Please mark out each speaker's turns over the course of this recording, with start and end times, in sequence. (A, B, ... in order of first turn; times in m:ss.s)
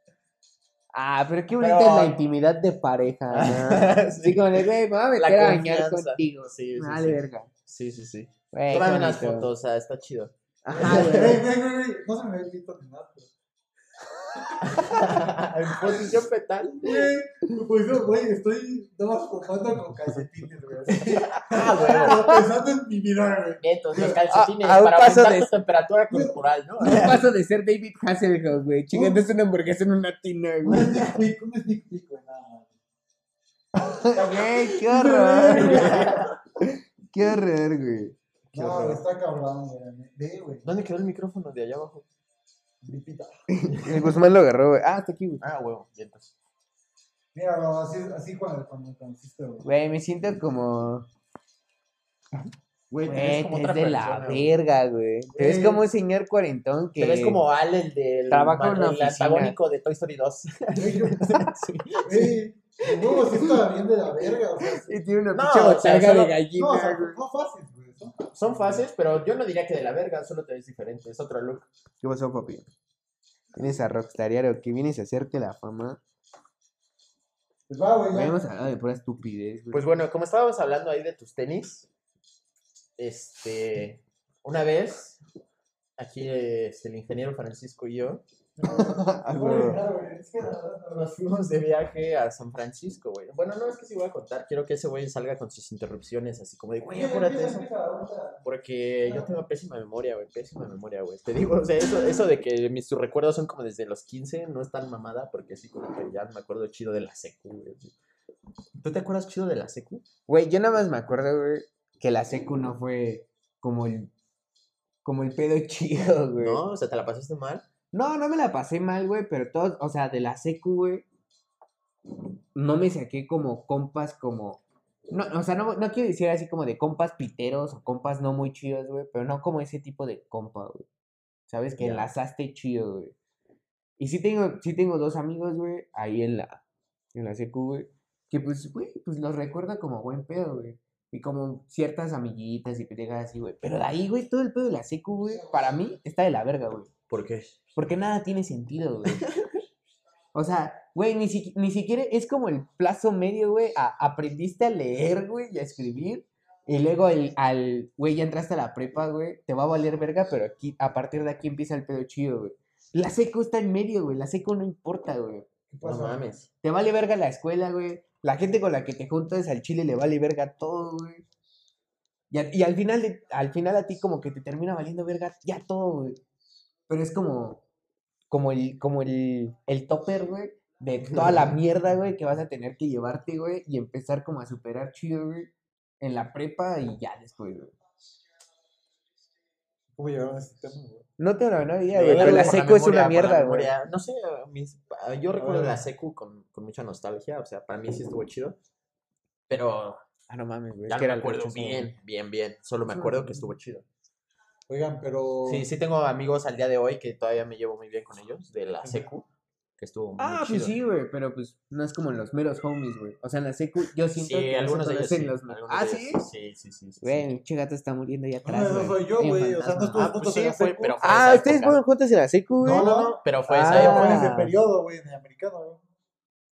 0:00.9-0:07.5 A
0:01.6-0:02.2 B
0:03.3-0:11.4 B
0:08.5-0:09.5 A
0:10.6-0:11.4 A
0:10.7-0:13.3 C
0:14.4-0:16.2 C
0:14.6-0:17.1 B
0:16.8-0:24.2 C
0:21.0-0:22.3 B
0:21.8-0:22.4 A
0:23.6-0:27.2 B
0:24.0-0:25.5 A
0:26.8-0:31.2 A
0:28.9-0:29.2 C
0:30.6-0:32.7 C
0:33.8-0:36.3 C
0:34.0-0:38.2 A
0:35.5-0:36.3 B
0:38.5-0:39.0 B
0:38.5-0:40.6 C
0:40.6-0:42.0 B
0:42.8-0:43.3 C
0:43.5-0:45.4 A
0:45.4-0:46.3 B
0:47.3-0:49.6 C
0:49.6-0:51.1 A
0:52.9-0:54.5 B
0:53.1-0:57.4 A
0:55.4-0:55.8 C
0:57.0-1:02.3 B
0:58.3-0:59.6 A
1:00.8-1:01.3 C
1:02.0-1:04.9 C
1:02.8-1:03.6 A
1:04.6-1:07.2 A
1:05.3-1:06.4 B
1:06.6-1:08.8 C
1:08.3-1:11.7 B
1:12.0-1:12.7 A
1:13.6-1:16.0 A
1:17.7-1:18.3 C
1:18.1-1:19.9 A
1:19.7-1:21.9 B
1:23.0-1:25.2 B
1:26.0-1:28.2 B
1:28.6-1:31.1 C
1:28.6-1:29.8 A
1:30.9-1:37.7 B
1:36.8-1:38.4 C
1:38.4-1:47.9 B
1:39.0-1:39.4 C
1:48.8-1:50.0 B
1:50.3-1:54.1 A
1:55.0-1:56.6 A
1:56.4-1:57.6 B
1:57.9-2:01.1 A
2:02.6-2:10.9 A
2:11.5-2:13.2 A
2:11.8-2:12.1 B
2:14.0-2:16.6 A
2:17.2-2:26.9 A
2:27.1-2:27.5 B
2:27.8-2:29.3 A
2:30.3-2:45.5 A
2:45.7-2:46.3 C
2:45.8-2:46.5 B
2:46.6-2:51.2 A
2:52.3-2:56.2 A
2:56.9-2:57.6 A
2:58.3-3:07.8 A
3:01.1-3:01.5 B
3:10.0-3:11.0 C
3:11.2-3:13.7 A
3:11.9-3:18.6 B
3:12.0-3:12.6 C
3:15.4-3:15.8 C
3:19.5-3:20.0 B
3:20.3-3:21.9 A
3:20.9-3:23.8 B
3:22.9-3:23.5 A
3:24.7-3:25.7 C
3:25.5-3:29.2 B
3:29.8-3:30.8 B
3:30.2-3:36.2 A
3:34.2-3:37.2 B
3:37.0-3:40.1 A
3:38.4-3:41.0 C
3:39.9-3:41.8 B
3:41.0-3:43.0 A
3:42.6-3:45.8 C
3:42.7-3:44.3 B
3:43.5-3:44.5 A